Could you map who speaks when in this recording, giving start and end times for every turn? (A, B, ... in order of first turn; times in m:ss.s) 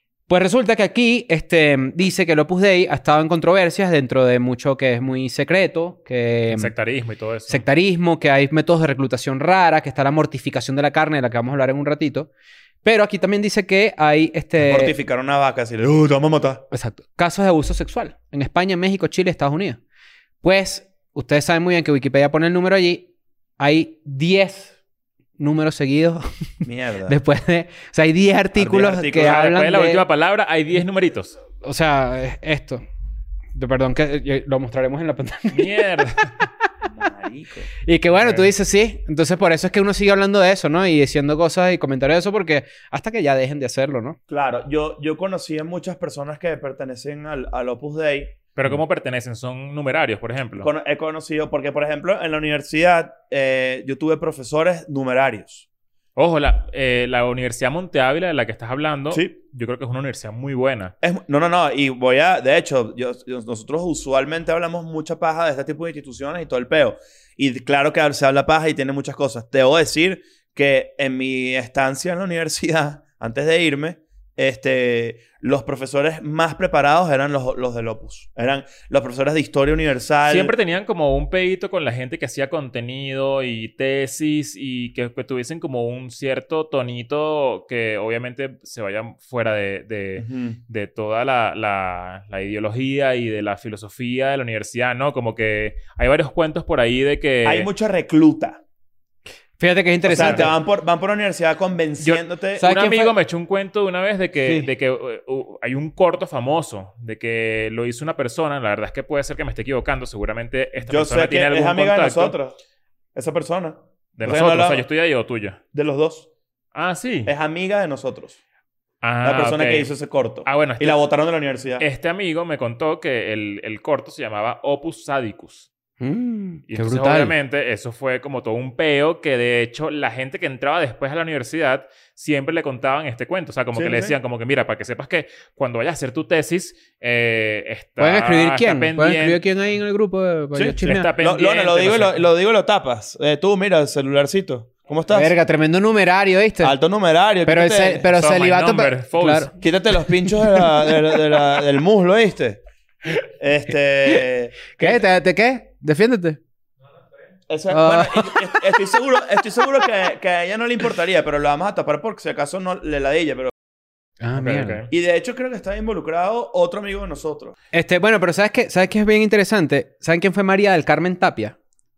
0:00.3-0:06.7 A
0:06.5-0:07.6 B
0:07.5-0:12.3 A
0:12.8-0:15.0 A
0:14.6-0:16.6 C
0:16.7-0:19.8 A
0:20.4-0:24.7 A
0:25.4-0:26.3 A
0:26.6-0:27.2 C
0:27.1-0:30.1 A
0:28.6-0:29.4 C
0:29.1-0:31.4 B
0:31.6-0:32.8 A
0:33.5-0:35.7 A
0:35.5-0:36.5 B
0:36.9-0:37.7 C
0:37.8-0:44.2 A
0:38.2-0:38.5 B
0:44.3-0:48.4 C
0:48.6-0:50.7 B
0:50.6-0:55.7 C
0:56.2-1:00.9 B
1:01.0-1:20.5 C
1:20.2-1:37.7 B
1:30.2-1:30.6 C
1:37.4-1:38.6 C
1:39.6-1:40.6 A
1:40.0-1:42.7 C
1:40.2-1:40.4 B
1:42.0-1:52.4 B
1:42.6-1:43.2 A
1:50.9-1:52.6 C
1:53.2-1:54.8 C
1:54.2-1:55.6 B
1:55.7-1:56.3 C
1:56.7-1:57.3 B
1:57.3-1:58.4 C
1:59.0-1:59.9 B
1:59.2-2:01.8 C
2:00.5-2:01.0 B
2:01.8-2:05.7 B
2:06.0-2:07.3 A
2:06.7-2:19.4 B
2:13.8-2:14.1 C
2:18.0-2:21.1 A
2:20.5-2:25.3 C
2:20.8-2:22.2 B
2:25.1-2:26.8 A
2:26.6-2:28.1 C
2:27.4-2:31.3 A
2:28.1-2:29.6 B
2:29.6-2:32.6 C
2:33.4-2:35.0 C
2:34.8-2:36.4 A
2:37.5-2:43.5 C
2:37.7-2:38.8 A
2:44.2-2:44.8 A
2:44.4-2:44.9 B
2:44.9-2:47.6 C
2:47.7-2:51.6 A